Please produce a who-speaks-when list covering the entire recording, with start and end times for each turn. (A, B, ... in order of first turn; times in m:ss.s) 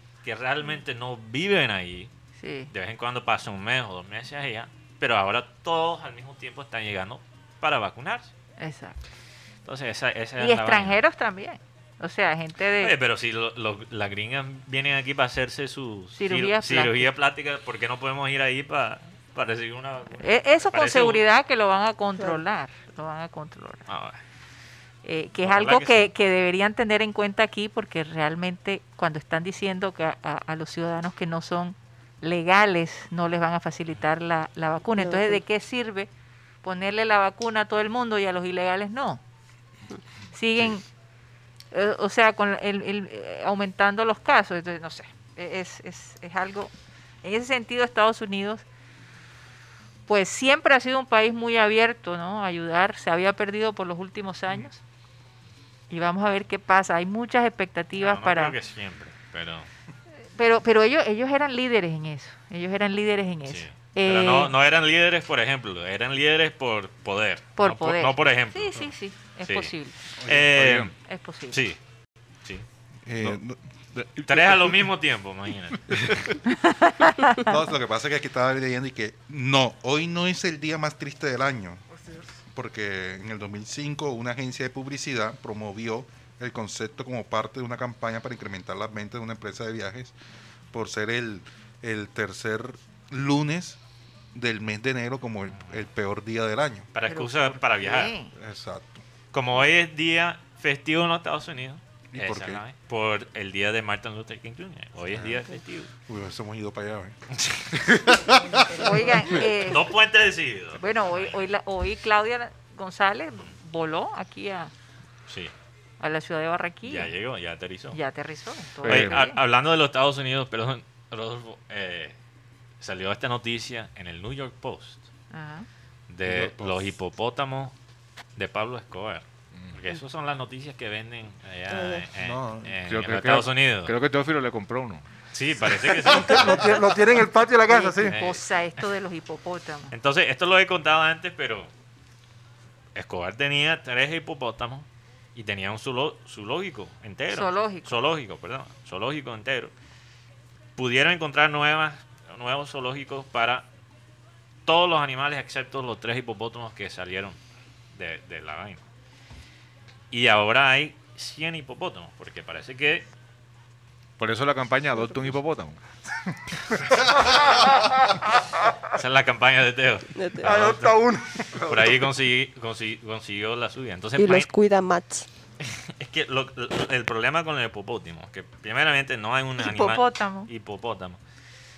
0:00.2-0:02.1 A
0:02.4-0:02.7 B
0:02.7-0:08.3 A
0:08.6-0:09.0 B
0:09.6-0:11.0 A
0:10.4-0:12.9 B
0:12.8-0:21.2 A
0:16.2-0:17.1 B
0:20.2-0:23.8 B
0:23.9-0:24.2 A
0:25.0-0:36.1 B
0:25.4-0:26.1 A
0:35.0-0:35.4 C
0:36.6-0:39.2 B
0:40.3-0:40.8 B
0:41.7-0:46.7 B
0:47.2-0:48.6 B
0:50.1-0:54.8 B
0:55.9-0:58.6 B
0:58.0-0:59.7 A
1:00.4-1:04.5 B
1:03.5-1:08.8 A
1:07.6-1:09.9 B
1:09.4-1:09.7 A
1:10.2-1:10.7 D
1:10.2-1:10.9 A
1:10.5-1:10.9 E
1:11.1-1:11.6 B
1:11.5-1:11.8 A
1:13.1-1:13.6 D
1:14.0-1:14.7 E
1:14.3-1:16.0 A
1:15.9-1:16.3 E
1:16.6-1:17.4 B
1:17.4-1:21.8 D
1:21.9-1:22.3 F
1:22.5-1:30.1 D
1:30.7-1:33.8 D
1:34.3-1:36.9 D
1:36.9-1:38.1 A
1:37.1-1:38.3 B
1:38.3-1:39.0 D
1:39.3-1:45.9 A
1:42.1-1:42.6 D
1:45.1-1:45.4 D
1:46.1-1:47.2 D
1:47.7-1:48.9 D
1:48.7-1:49.9 B
1:49.6-1:51.4 A
1:50.8-1:54.7 B
1:55.3-1:55.5 A
1:56.0-1:57.1 B
1:56.8-1:58.0 A
1:57.9-1:59.4 B
1:58.8-1:59.2 E
1:58.9-2:02.1 A
2:02.8-2:05.1 A
2:05.3-2:05.6 B
2:06.1-2:07.7 A
2:06.3-2:06.8 D
2:08.4-2:13.9 A
2:11.7-2:12.0 C
2:12.2-2:12.8 D
2:12.9-2:15.0 E
2:15.3-2:16.8 A
2:15.8-2:16.3 D
2:16.1-2:18.2 F
2:17.7-2:19.9 B
2:18.0-2:18.4 A
2:19.9-2:21.7 A
2:22.9-2:29.7 A
2:27.3-2:27.9 B
2:30.8-2:33.6 A
2:34.6-2:37.4 A
2:37.9-2:38.8 A
2:40.1-2:43.1 A
2:44.2-2:45.8 E
2:47.6-2:48.2 F
2:48.9-2:51.0 A
2:50.2-2:50.5 C
2:50.4-2:52.0 F
2:51.6-2:54.5 A
2:54.2-2:55.3 C
2:55.7-3:01.2 A
2:59.6-3:00.5 B